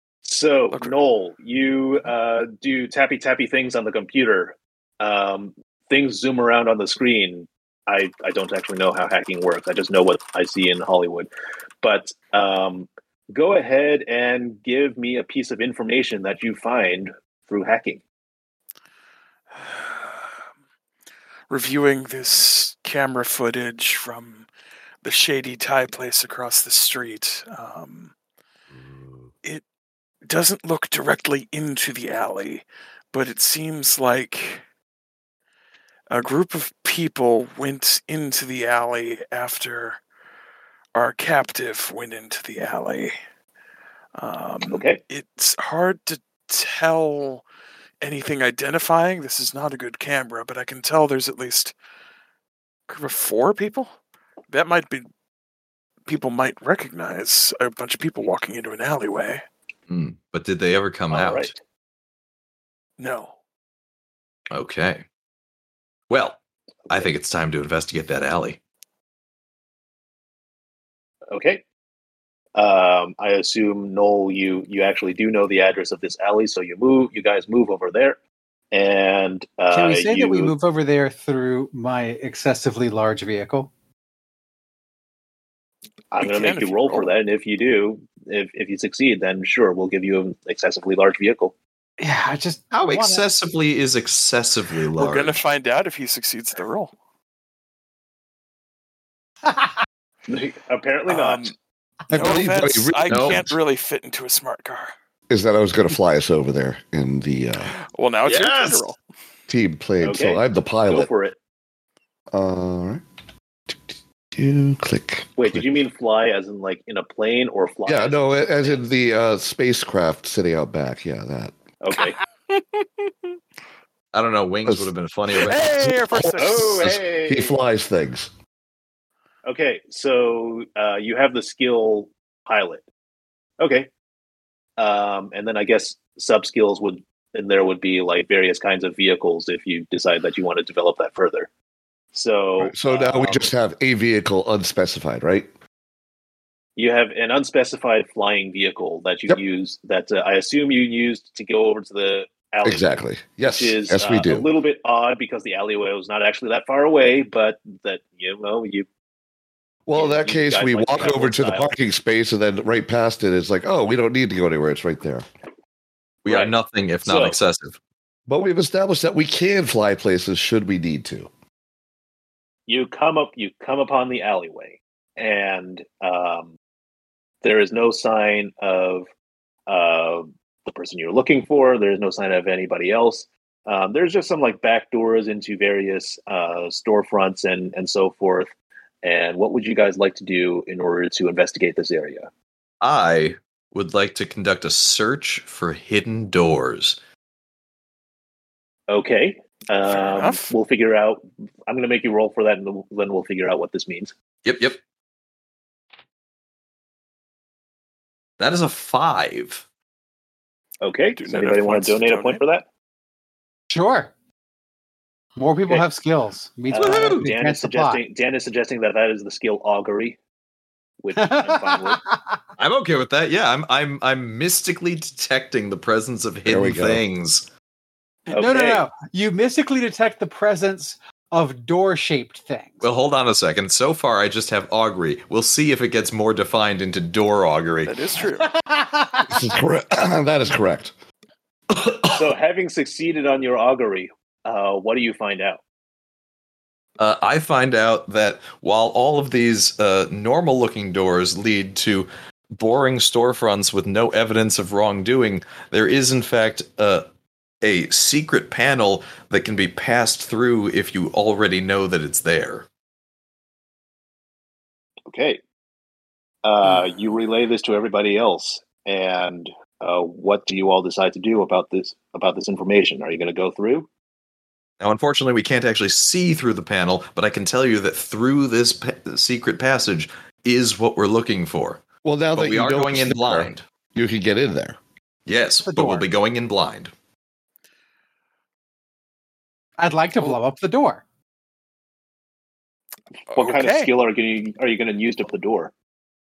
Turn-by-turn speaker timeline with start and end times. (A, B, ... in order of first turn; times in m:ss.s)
0:00.2-0:11.3 A
0:11.8-0:18.0 A
0:19.6-0:20.2 B
0:21.5-0:24.5 B
0:25.0-0:28.1 B
0:30.2-0:34.6 B
0:36.1-0:40.0 B
0:40.9-0:43.1 B
0:44.2-0:47.4 B
0:44.7-0:45.0 A
0:48.0-0:51.7 B
0:52.9-0:53.9 B
0:54.5-0:55.1 B
0:56.0-0:59.4 B
0:59.9-1:01.5 C
1:01.1-1:01.6 A
1:03.0-1:03.4 B
1:04.5-1:05.0 C
1:06.1-1:08.6 C
1:11.3-1:11.6 A
1:12.5-1:18.2 A
1:18.7-1:20.5 A
1:19.7-1:23.7 D
1:26.1-1:31.5 A
1:26.2-1:27.1 B
1:32.0-1:33.2 D
1:32.7-1:35.4 C
1:34.9-1:36.9 B
1:39.5-1:39.7 D
1:40.3-1:41.5 A
1:41.1-1:41.5 B
1:42.1-1:44.9 B
1:42.1-1:43.6 E
1:43.1-1:43.4 C
1:45.3-1:47.7 E
1:47.6-1:49.0 B
1:48.2-1:48.9 C
1:49.5-1:51.1 E
1:50.0-1:51.4 A
1:52.3-1:53.0 E
1:53.7-1:55.7 E
1:55.4-1:58.8 A
1:57.8-2:01.6 E
2:01.8-2:02.2 A
2:04.1-2:05.6 C
2:04.7-2:04.9 E
2:05.4-2:06.9 B
2:05.8-2:08.3 E
2:06.4-2:07.6 A
2:09.4-2:12.8 A
2:13.6-2:13.9 A
2:14.8-2:21.5 A
2:22.1-2:23.5 A
2:22.6-2:25.5 E
2:26.8-2:38.9 A
2:32.6-2:34.5 E
2:39.9-2:45.2 E
2:39.9-2:41.7 A
2:46.2-2:47.8 C
2:46.2-2:47.4 A
2:48.3-2:51.3 E
2:52.7-2:56.5 A
2:57.4-2:59.1 A
2:59.7-3:12.3 A
3:12.8-3:17.0 C
3:18.9-3:24.1 A
3:19.8-3:20.5 B
3:24.4-3:24.8 C
3:28.4-3:29.6 C
3:30.8-3:32.6 A
3:31.2-3:32.4 B
3:33.7-3:34.1 D
3:35.4-3:38.0 D
3:36.7-3:40.2 A
3:36.8-3:37.3 C
3:41.0-3:42.0 A
3:41.2-3:42.4 D
3:42.6-3:47.5 C
3:46.5-3:47.0 E
3:48.3-3:48.8 A
3:48.3-3:52.8 D
3:52.8-3:58.1 C
3:57.8-3:58.5 B
3:58.4-3:59.4 D
3:59.3-4:00.9 E
4:02.1-4:05.6 A
4:07.0-4:17.0 C
4:17.6-4:22.7 C
4:25.1-4:25.4 A
4:26.4-4:33.9 A
4:34.8-4:41.8 C
4:42.0-4:44.8 E
4:42.4-4:43.6 C
4:45.2-4:46.9 C
4:45.6-4:46.1 D
4:49.8-4:51.0 D
4:53.3-4:53.8 B
4:53.3-4:55.7 A
4:53.6-4:53.9 D